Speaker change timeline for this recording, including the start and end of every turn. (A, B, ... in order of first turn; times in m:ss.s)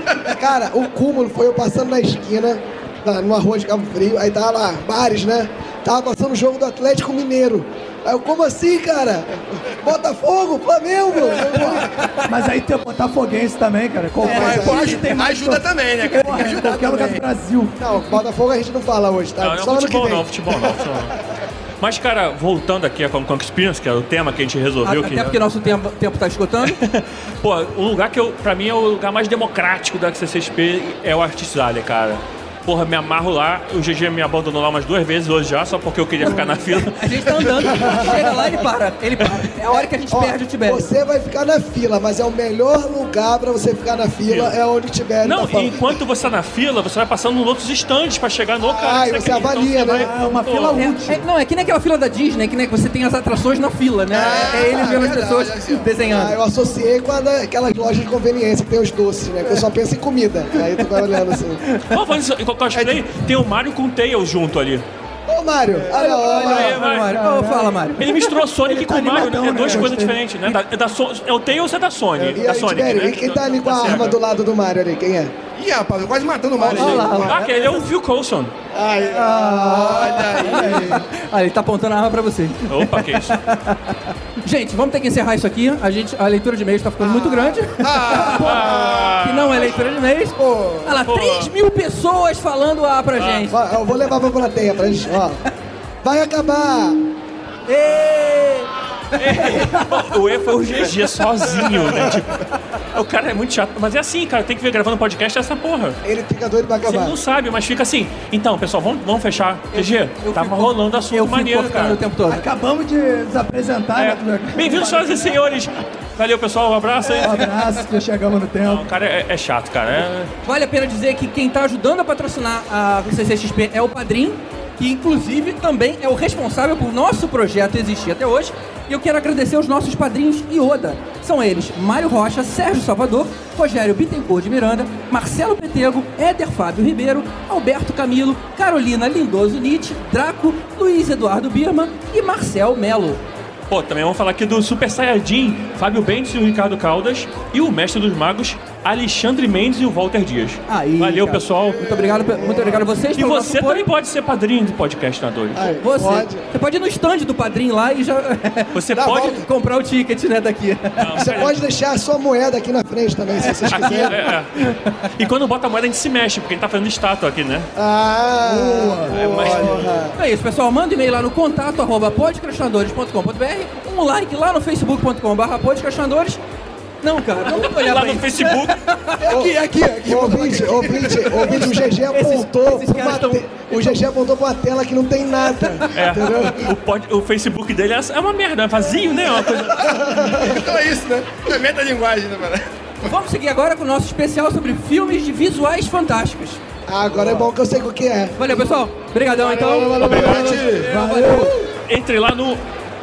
0:00.3-0:11.8 A
0:12.3-0:17.8 B
0:14.2-0:17.2 C
0:14.2-0:15.0 A
0:17.8-0:20.7 A
0:19.4-0:21.1 D
0:21.8-0:25.4 D
0:24.8-0:26.8 E
0:26.6-0:38.0 D
0:36.2-0:40.9 E
0:37.9-0:38.5 A
0:39.7-0:46.0 A
0:44.2-0:44.5 D
0:45.2-0:50.9 D
0:48.6-0:50.1 A
0:49.9-0:51.2 B
0:50.7-0:56.4 E
0:54.1-0:56.0 C
0:56.0-1:01.6 A
1:01.9-1:04.8 D
1:05.3-1:06.8 A
1:05.7-1:06.0 C
1:05.9-1:08.3 E
1:06.3-1:07.2 D
1:07.0-1:07.8 B
1:08.0-1:14.2 D
1:08.6-1:10.2 B
1:12.2-1:15.3 A
1:15.6-1:17.4 C
1:16.7-1:17.7 E
1:16.7-1:18.5 D
1:18.7-1:21.1 C
1:19.1-1:20.5 A
1:20.4-1:23.8 E
1:22.7-1:23.4 D
1:24.4-1:34.0 E
1:27.8-1:29.1 C
1:28.3-1:29.7 D
1:31.0-1:31.5 D
1:33.2-1:33.5 D
1:33.5-1:35.4 A
1:36.0-1:37.0 A
1:37.7-1:38.7 E
1:39.2-1:42.4 D
1:39.4-1:39.9 E
1:42.9-1:46.0 D
1:46.0-1:47.2 A
1:46.8-1:52.0 D
1:49.7-1:52.4 E
1:52.3-1:55.2 B
1:53.9-1:57.7 D
1:57.2-1:58.9 B
1:58.6-2:00.3 D
2:00.4-2:23.2 E
2:23.7-2:31.8 D
2:30.7-2:33.9 E
2:32.3-2:32.9 A
2:33.1-2:35.6 D
2:35.6-2:36.4 A
2:35.6-2:41.2 E
2:38.7-2:39.4 D
2:41.0-2:41.6 D
2:41.2-2:44.3 A
2:43.7-2:44.5 D
2:45.2-2:47.7 D
2:47.8-2:50.1 A
2:48.4-2:49.8 B
2:49.1-2:50.0 D
2:50.1-2:56.4 E
2:57.0-3:04.0 E
2:57.4-2:58.8 D
2:59.2-3:06.6 A
3:05.9-3:10.1 D
3:10.1-3:13.1 C
3:10.2-3:10.5 A
3:13.0-3:16.6 E
3:16.9-3:18.4 A
3:17.1-3:17.4 C
3:18.4-3:21.5 E
3:19.4-3:21.0 C
3:19.5-3:20.8 A
3:19.9-3:20.5 D
3:20.8-3:21.6 B
3:21.8-3:22.6 D